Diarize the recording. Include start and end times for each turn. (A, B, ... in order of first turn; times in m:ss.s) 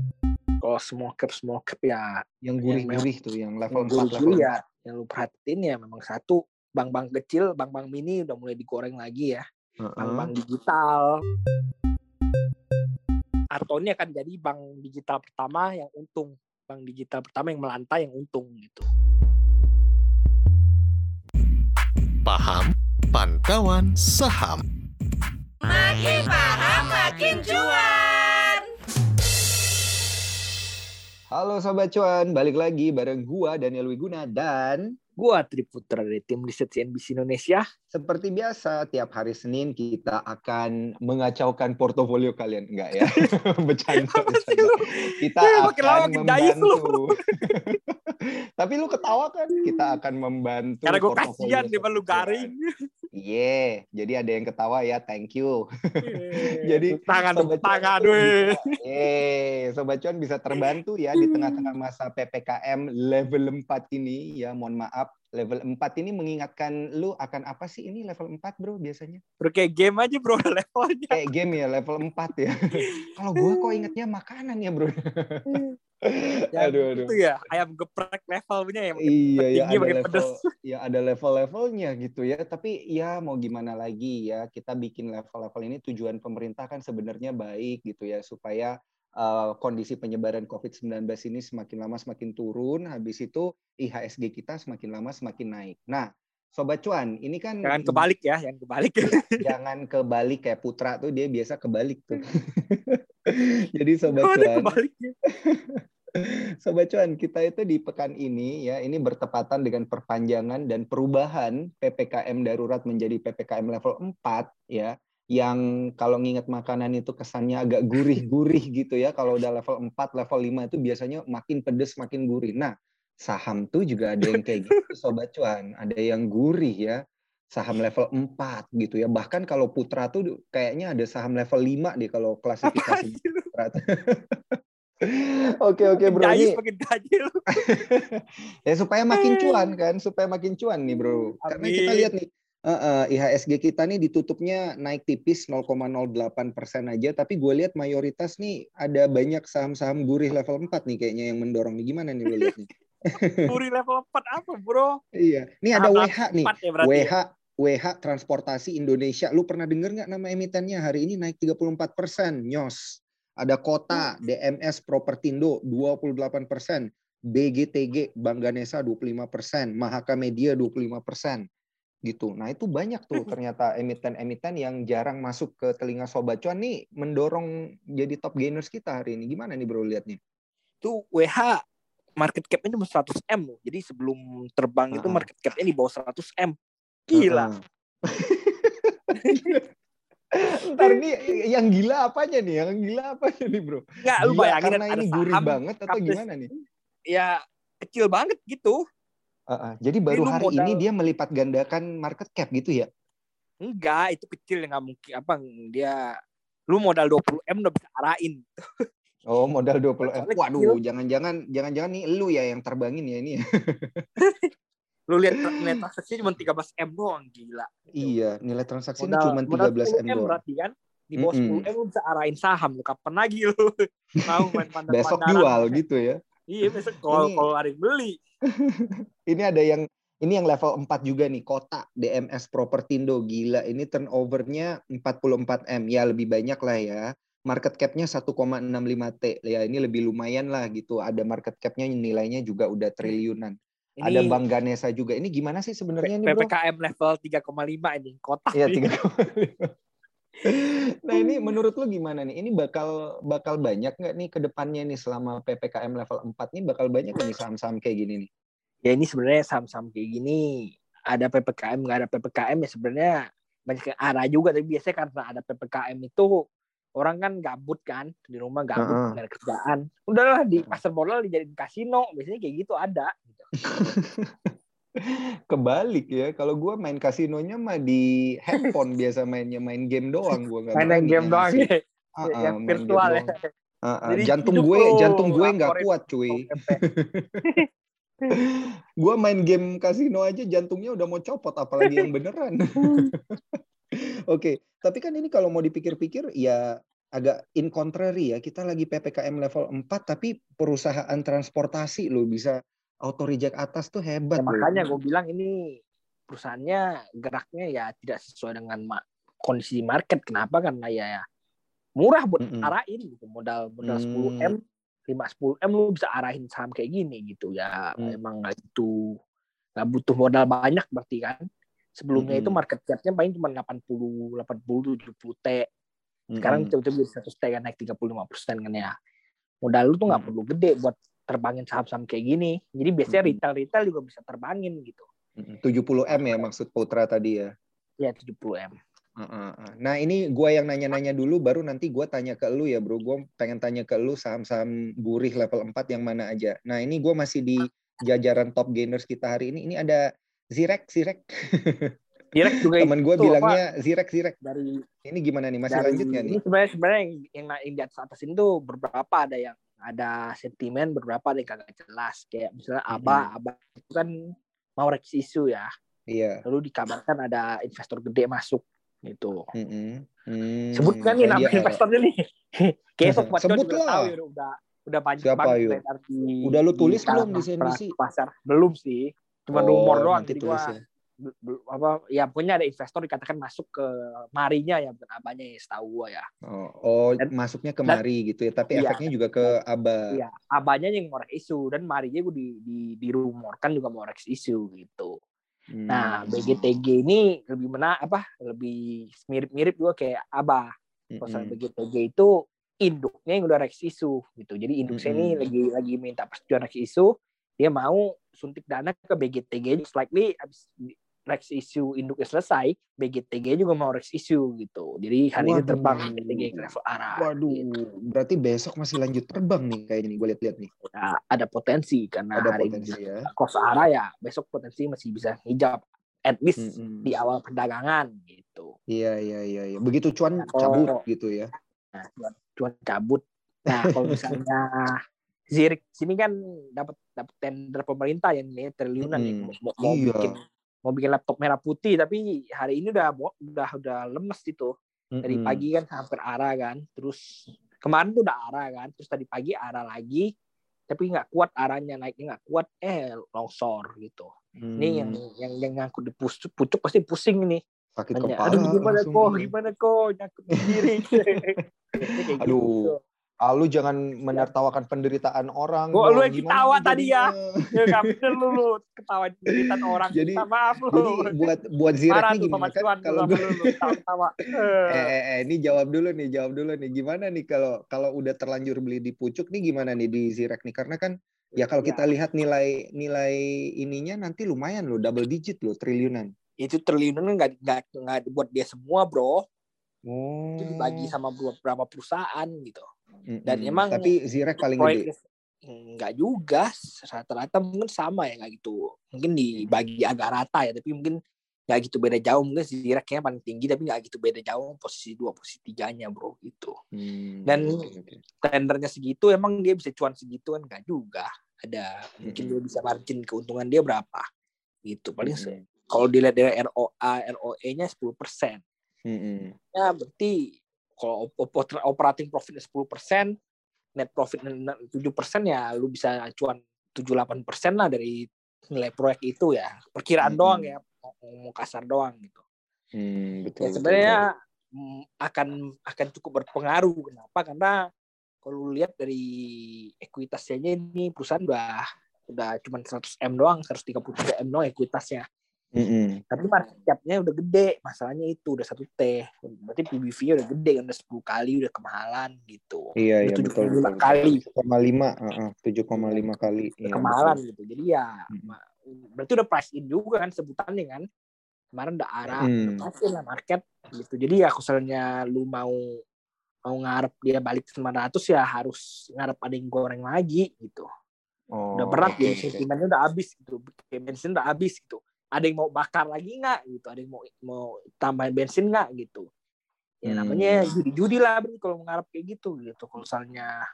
0:00.6-0:03.0 A
0:02.4-0:04.4 B
0:03.7-0:09.4 A
0:09.8-0:10.3 B
0:10.0-0:11.2 A
0:13.5-0:18.9 A
0:22.2-0:24.6 C
0:27.3-0:27.6 A
0:31.3-0:35.0 B
0:35.2-0:37.6 A
0:37.9-0:47.8 B
0:43.0-0:43.3 A
0:43.9-0:44.8 A
0:45.4-0:47.8 A
0:48.6-0:52.5 B
0:49.6-0:50.0 A
0:50.8-0:52.6 A
0:53.1-1:09.2 B
0:56.0-0:58.7 A
1:00.5-1:01.7 A
1:09.4-1:11.2 A
1:11.1-1:12.6 B
1:12.8-1:13.9 A
1:13.2-1:17.2 B
1:16.5-1:20.4 A
1:19.0-1:38.0 B
1:37.6-1:39.4 A
1:39.2-1:44.7 B
1:44.1-1:45.1 A
1:45.4-2:07.0 B
2:04.3-2:04.9 A
2:07.5-2:14.4 B
2:12.6-2:13.5 A
2:15.1-2:16.6 B
2:15.9-2:17.8 A
2:17.8-2:18.1 B
2:18.7-2:32.7 B
2:19.1-2:19.7 A
2:20.9-2:22.1 A
2:33.2-2:33.5 B
2:33.5-2:35.0 A
2:35.2-2:51.4 B
2:35.8-2:37.1 A
2:52.0-3:00.2 B
3:00.8-3:01.6 A
3:02.2-3:06.5 A
3:04.9-3:05.2 B
3:07.1-3:07.5 A
3:07.2-3:07.6 B
3:08.1-3:09.6 B
3:09.2-3:09.6 A
3:10.6-3:16.5 B
3:10.8-3:11.3 A
3:14.0-3:16.2 A
3:17.1-3:18.8 A
3:19.5-3:22.9 B
3:20.1-3:20.8 A
3:23.6-3:26.0 A
3:26.7-3:28.8 A
3:29.3-3:34.0 B
3:30.0-3:30.8 A
3:34.2-3:34.5 A
3:35.1-3:38.1 A
3:37.9-3:40.4 B
3:39.0-3:45.8 A
3:41.2-3:41.7 B
3:44.4-3:46.2 B
3:46.5-3:48.2 A
3:47.0-3:47.5 B
3:49.3-4:06.5 B
4:04.0-4:04.4 A
4:06.0-4:08.9 A
4:08.6-4:09.7 B
4:10.5-4:18.3 B
4:11.1-4:11.5 A
4:18.8-4:20.4 A
4:21.1-4:23.2 A
4:23.7-4:26.3 A
4:27.0-4:33.9 A
4:28.8-4:29.1 B
4:33.7-4:34.3 B
4:35.0-4:41.7 B
4:40.8-4:43.5 A
4:42.2-4:43.3 B
4:43.9-4:47.4 B
4:44.1-4:46.8 A
4:49.0-4:53.0 B
4:54.3-5:04.9 B
5:04.4-5:05.8 A
5:06.3-5:11.2 A
5:12.0-5:19.0 A
5:12.4-5:12.7 B
5:13.8-5:14.5 B
5:19.8-5:21.4 A
5:22.0-5:25.7 A
5:22.2-5:22.6 B
5:26.3-5:26.7 B
5:26.4-5:28.9 A
5:29.6-5:35.1 A
5:33.1-5:33.4 B
5:35.4-5:37.5 B
5:36.2-5:36.4 A
5:38.0-5:38.7 A
5:39.2-5:51.9 B
5:52.3-5:53.6 A
5:52.7-5:54.4 B
5:54.4-5:54.8 A
5:55.0-5:56.4 B
5:55.7-6:04.1 A
6:02.9-6:03.3 B
6:04.8-6:05.7 A
6:06.1-6:06.4 B
6:06.4-6:09.4 A
6:09.6-6:11.8 B
6:10.8-6:26.2 A
6:13.0-6:14.1 B
6:15.2-6:15.8 B
6:16.4-6:17.9 B
6:19.5-6:20.8 B
6:26.5-6:30.2 B
6:28.7-6:29.6 A
6:30.1-6:35.1 A
6:35.7-6:36.7 B
6:35.9-6:40.7 A
6:41.1-6:41.6 B
6:41.2-6:42.3 A
6:42.8-6:57.6 A
6:44.9-6:45.4 B
6:55.4-6:56.6 B
6:57.2-7:00.7 B
7:00.9-7:08.7 A
7:02.4-7:03.2 B
7:06.6-7:07.1 B
7:08.9-7:11.5 B
7:10.4-7:11.0 A
7:12.0-7:14.9 A
7:14.0-7:14.4 B
7:15.5-7:24.7 A
7:19.0-7:20.4 B
7:25.2-7:25.6 B
7:25.2-7:27.2 A
7:27.8-7:30.3 A
7:30.9-7:37.6 A
7:34.6-7:35.2 B
7:38.0-7:39.5 B
7:38.2-7:43.0 A
7:40.7-7:41.4 B
7:42.2-7:42.9 B
7:43.4-7:48.6 B
7:45.9-7:51.4 A
7:49.6-7:53.9 B
7:52.1-7:55.1 A
7:54.9-8:06.3 B
8:01.6-8:02.0 A
8:06.6-8:09.4 A
8:10.1-8:11.1 B
8:10.6-8:12.8 A
8:13.3-8:15.1 B
8:13.5-8:14.1 A
8:14.7-8:21.2 A
8:21.7-8:26.7 A
8:26.9-8:28.2 B
8:27.5-8:27.8 A
8:28.4-8:34.2 A
8:32.3-8:32.6 B
8:34.9-8:38.6 A
8:35.2-8:35.6 B
8:39.1-8:39.5 B
8:39.8-8:43.3 A
8:44.0-8:48.2 A
8:48.7-8:52.4 A
8:50.2-8:50.7 B
8:53.0-8:54.2 B
8:53.6-8:54.3 A
8:54.8-8:57.8 A
8:58.4-9:05.2 A
9:05.8-9:06.2 B
9:06.3-9:14.4 A
9:13.0-9:17.4 B
9:15.9-9:16.2 A
9:16.9-9:21.0 A
9:21.8-9:25.8 A
9:22.3-9:22.8 B
9:26.7-9:30.9 A
9:31.6-9:32.6 B
9:31.8-9:39.2 A
9:40.0-9:43.6 A
9:40.1-9:40.7 B